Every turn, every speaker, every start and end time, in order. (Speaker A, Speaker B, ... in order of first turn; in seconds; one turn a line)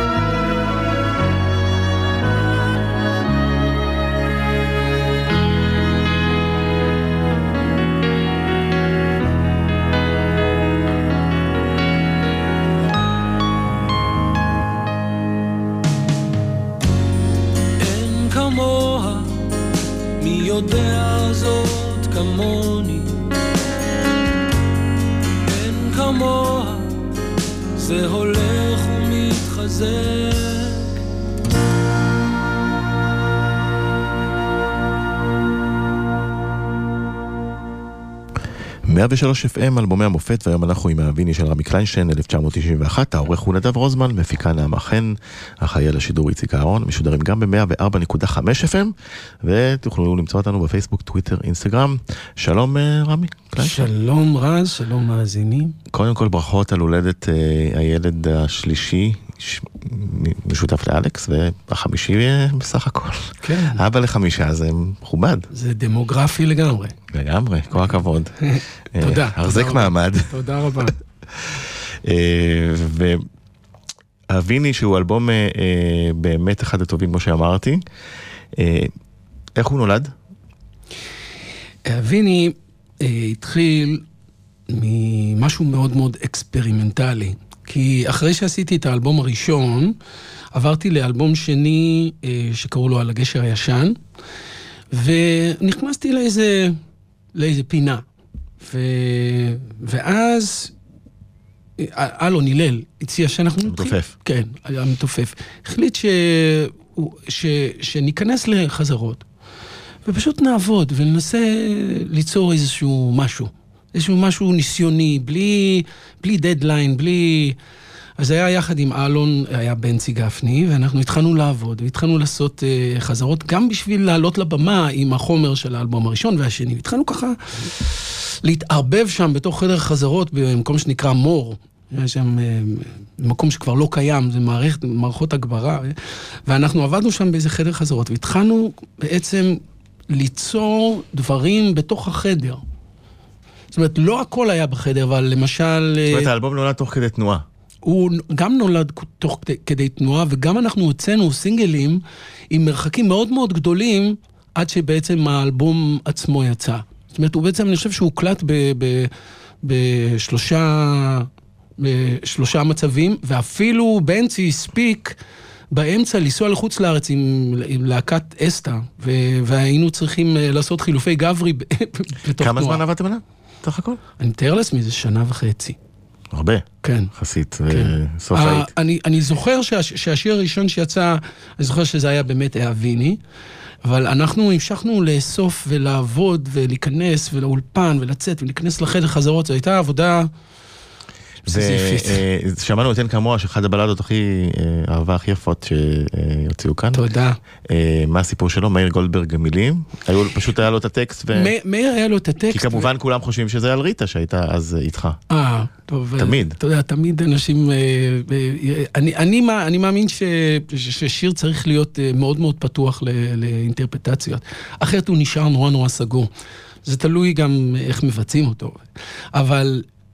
Speaker A: 17.8-19.5
Speaker A: 20.2-23.2
Speaker A: 25.4-27.1
Speaker A: 27.8-31.0
Speaker B: 38.9-53.9
Speaker C: 53.6-55.8
Speaker B: 55.9-65.5
Speaker C: 63.4-63.8
Speaker C: 65.5-67.0
Speaker B: 67.1-68.3
Speaker C: 68.5-71.0
Speaker B: 68.9-70.4
Speaker B: 71.4-73.2
Speaker B: 74.3-77.8
Speaker B: 78.6-78.9
Speaker B: 79.6-80.1
Speaker C: 81.9-84.0
Speaker C: 84.7-90.0
Speaker C: 90.5-94.0
Speaker C: 94.9-96.8
Speaker C: 97.3-98.0
Speaker C: 98.6-100.7
Speaker C: 101.8-109.2
Speaker B: 103.7-104.1
Speaker C: 110.1-117.6
Speaker C: 118.2-127.7
Speaker C: 128.4-142.6
Speaker C: 143.7-146.3
Speaker B: 146.1-147.4
Speaker C: 147.8-159.1
Speaker C: 159.6-165.2
Speaker C: 165.7-172.8
Speaker B: 172.4-174.0
Speaker C: 174.2-175.8
Speaker B: 176.3-178.7
Speaker C: 176.8-177.1
Speaker C: 177.7-183.2
Speaker C: 183.8-190.3
Speaker B: 191.4-197.1
Speaker C: 191.5-192.2
Speaker C: 196.9-197.4
Speaker B: 197.7-201.5
Speaker C: 201.3-202.9
Speaker B: 202.5-205.2
Speaker C: 205.3-216.3
Speaker B: 206.2-206.6
Speaker C: 216.8-218.8
Speaker C: 219.3-219.9